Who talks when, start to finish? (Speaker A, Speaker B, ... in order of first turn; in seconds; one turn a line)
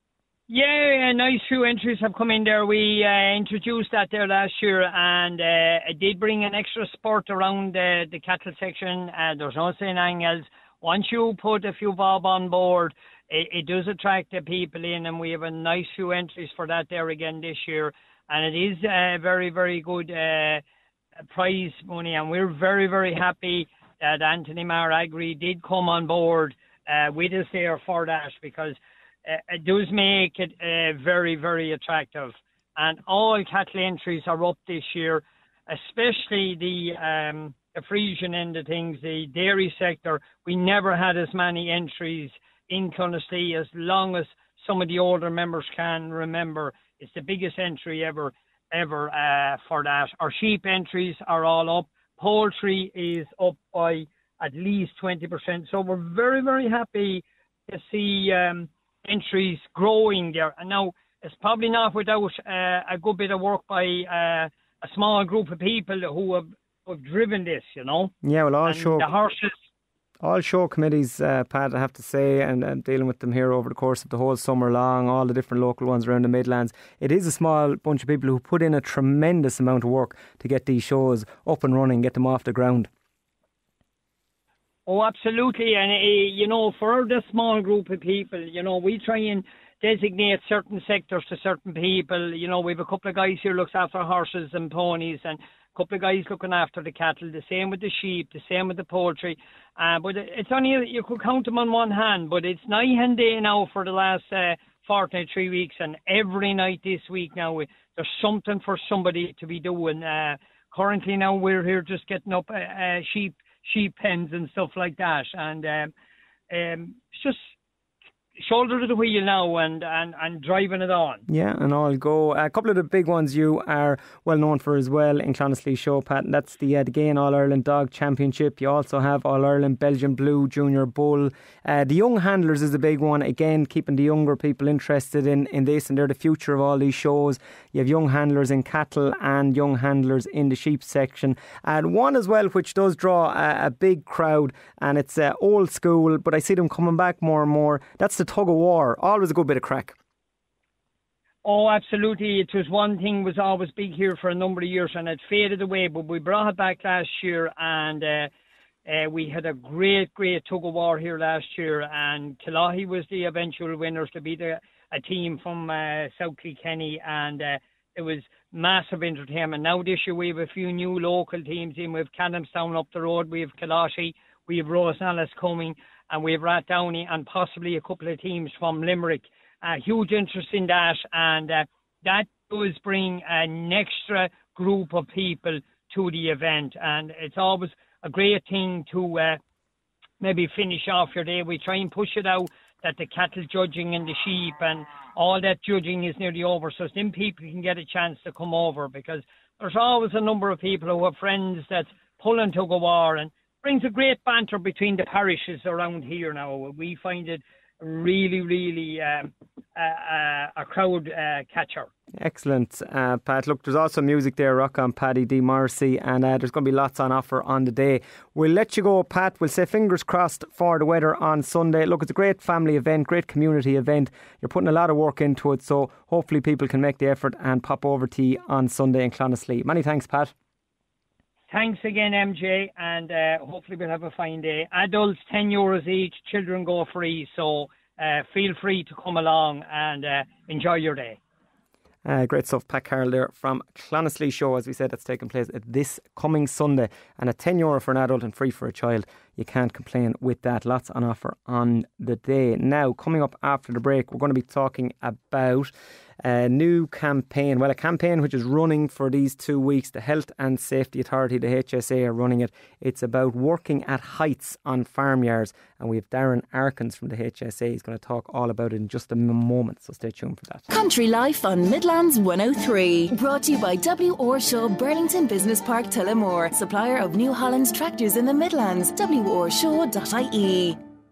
Speaker A: 0.5-20.6
Speaker A: 21.3-68.1
Speaker B: 68.2-69.1
Speaker A: 68.7-69.5
Speaker B: 70.2-82.9
Speaker A: 84.8-115.9
Speaker A: 116.5-117.5
Speaker A: 118.4-121.2
Speaker B: 121.3-149.9
Speaker A: 151.4-158.3
Speaker A: 158.8-189.4
Speaker A: 190.2-211.9
Speaker B: 212.2-230.3
Speaker A: 231.5-241.2
Speaker B: 242.0-270.6
Speaker C: 270.7-280.8